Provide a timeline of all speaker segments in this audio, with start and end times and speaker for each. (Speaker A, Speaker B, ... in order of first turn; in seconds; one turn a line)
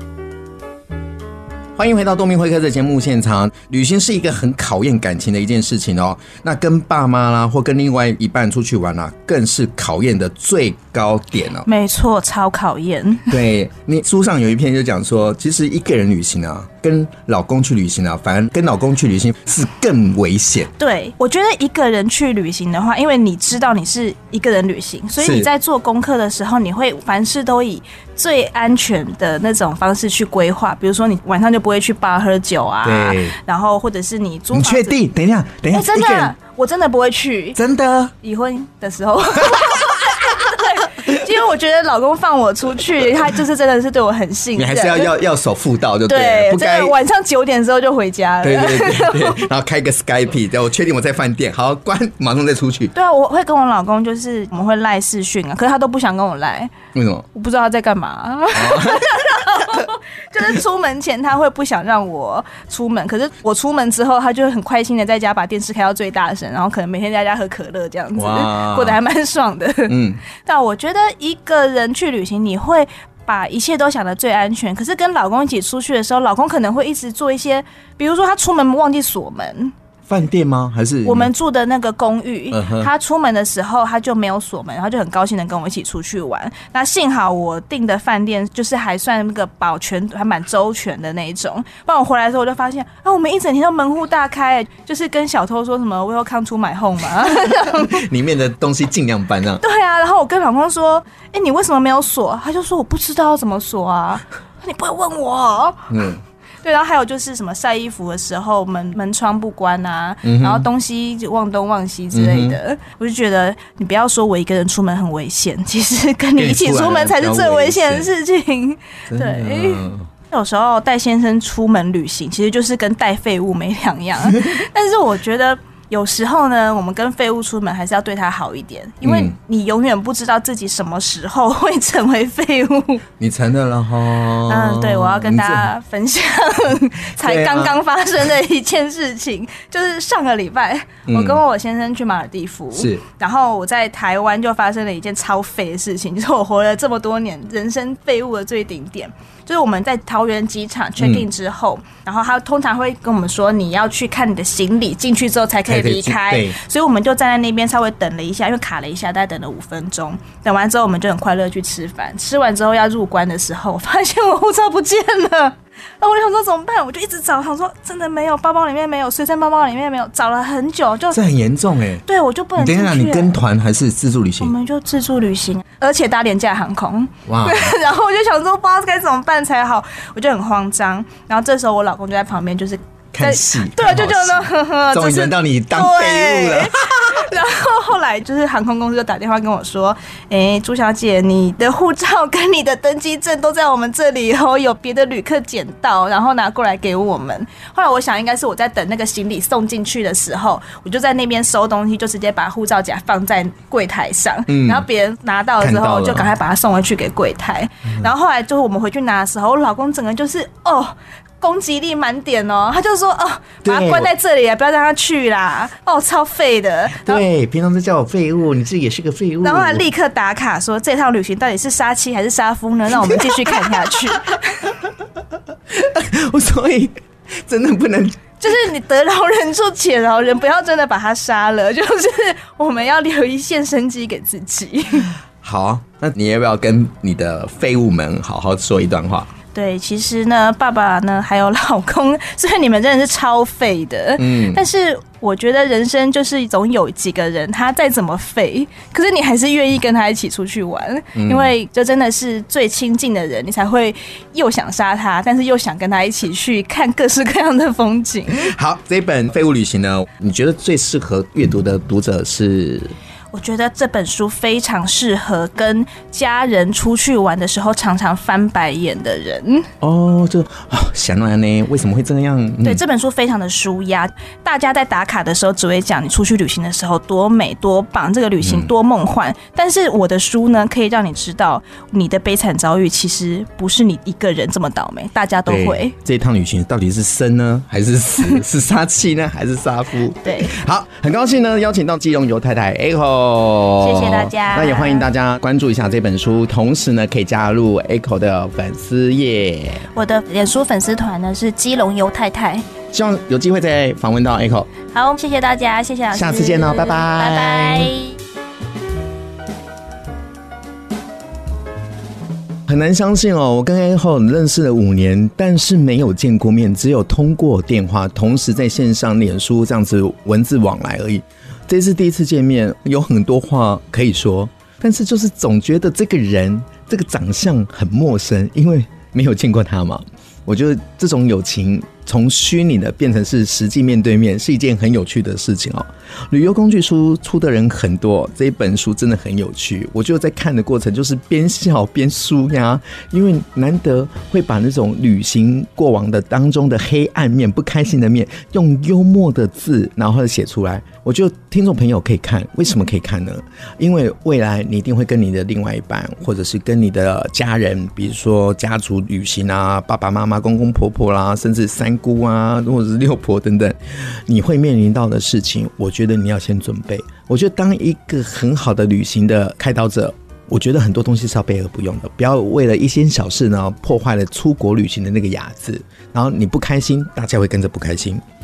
Speaker A: 1.8-11.7
Speaker B: 11.6-13.3
Speaker A: 13.3-20.7
Speaker B: 20.8-35.0
Speaker A: 25.2-25.5
Speaker A: 32.8-33.4
Speaker A: 34.5-36.3
Speaker B: 35.7-37.6
Speaker A: 37.5-38.1
Speaker B: 38.2-45.1
Speaker A: 39.5-41.2
Speaker A: 44.5-47.0
Speaker B: 46.1-49.5
Speaker A: 48.4-52.9
Speaker B: 52.9-56.7
Speaker A: 56.9-57.2
Speaker B: 57.3-79.7
Speaker A: 58.5-59.3
Speaker A: 68.2-69.0
Speaker A: 69.9-70.2
Speaker A: 80.1-81.3
Speaker B: 81.0-98.1
Speaker A: 82.5-82.9
Speaker A: 97.3-99.6
Speaker B: 99.6-106.1
Speaker A: 105.9-106.2
Speaker B: 106.6-133.0
Speaker A: 110.2-110.7
Speaker A: 112.1-112.6
Speaker A: 116.4-118.1
Speaker A: 119.1-120.1
Speaker A: 129.0-129.3
Speaker A: 133.2-135.7
Speaker B: 134.4-171.2
Speaker A: 137.2-137.8
Speaker A: 141.1-141.4
Speaker A: 142.7-143.0
Speaker A: 151.0-151.3
Speaker A: 155.7-156.6
Speaker A: 171.1-172.0
Speaker B: 172.0-173.4
Speaker A: 172.6-174.5
Speaker B: 174.4-217.2
Speaker A: 177.3-177.7
Speaker A: 183.1-187.3
Speaker A: 204.5-204.8
Speaker A: 205.6-206.3
Speaker A: 213.6-214.1
Speaker A: 216.9-219.8
Speaker B: 219.4-224.7
Speaker A: 223.0-224.3
Speaker A: 225.7-228.2
Speaker B: 228.4-235.1
Speaker A: 235.4-239.3
Speaker B: 239.5-258.5
Speaker A: 244.2-244.6
Speaker A: 251.1-251.5
Speaker A: 258.3-262.9
Speaker B: 263.3-269.7
Speaker A: 269.8-272.8
Speaker B: 272.6-285.9
Speaker A: 278.4-278.7
Speaker A: 285.5-299.9
Speaker B: 290.2-290.5
Speaker B: 293.8-295.1
Speaker B: 299.9-302.6
Speaker A: 302.9-304.7
Speaker B: 304.9-308.1
Speaker A: 306.1-307.9
Speaker A: 312.7-378.2